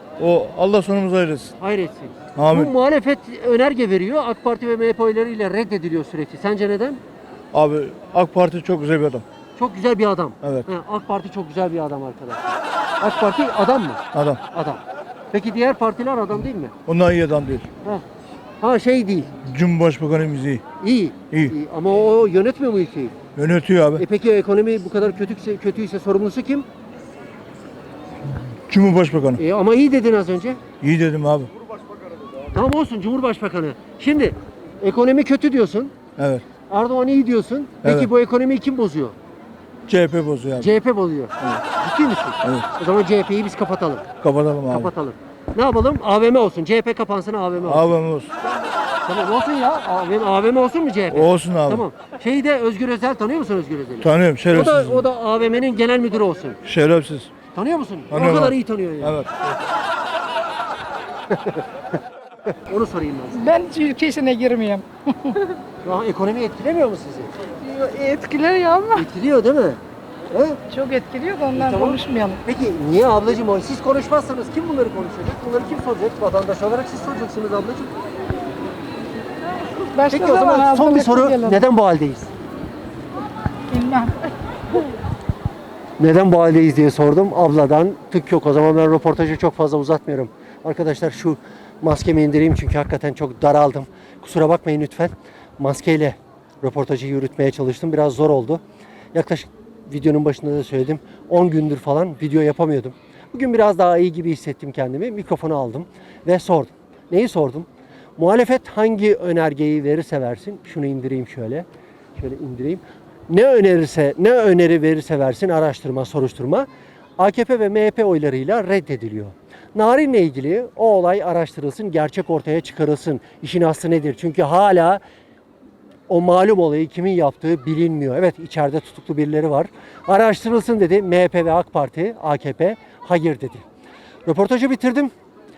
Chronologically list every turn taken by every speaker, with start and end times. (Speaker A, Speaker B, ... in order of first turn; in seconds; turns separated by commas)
Speaker A: 0.2-1.5, Speaker B: 1.6-7.0, Speaker A: 2.3-2.7, Speaker A: 7.5-9.2, Speaker B: 9.6-14.8, Speaker A: 10.4-10.7, Speaker A: 14.1-14.4, Speaker B: 15.3-16.7, Speaker A: 16.9-17.6, Speaker B: 18.6-19.3, Speaker A: 19.4-20.6, Speaker B: 20.8-23.1, Speaker A: 23.3-24.0, Speaker B: 23.9-26.7, Speaker A: 28.7-29.4, Speaker B: 29.4-30.6, Speaker A: 30.8-31.5, Speaker B: 32.5-35.9, Speaker A: 36.1-36.4, Speaker B: 36.7-39.1, Speaker A: 37.8-38.1, Speaker A: 39.9-40.7, Speaker B: 40.6-44.1, Speaker A: 42.4-42.7, Speaker A: 44.2-44.9, Speaker B: 44.7-47.9, Speaker A: 47.6-48.3, Speaker B: 49.0-56.6, Speaker A: 51.1-51.8, Speaker A: 54.0-55.0, Speaker A: 56.6-57.3, Speaker B: 57.5-59.2, Speaker A: 58.1-59.5, Speaker B: 61.3-61.6, Speaker B: 62.5-63.5, Speaker C: 63.3-65.4, Speaker B: 65.8-67.3, Speaker C: 67.5-69.0, Speaker B: 68.9-69.8, Speaker B: 70.3-70.6, Speaker C: 70.7-72.4, Speaker B: 71.5-77.9, Speaker C: 79.8-81.6, Speaker B: 80.0-82.3, Speaker C: 83.7-84.1, Speaker B: 86.0-98.6, Speaker B: 99.1-111.7, Speaker B: 112.2-116.7, Speaker B: 117.2-125.0, Speaker B: 126.1-133.6, Speaker B: 134.2-135.1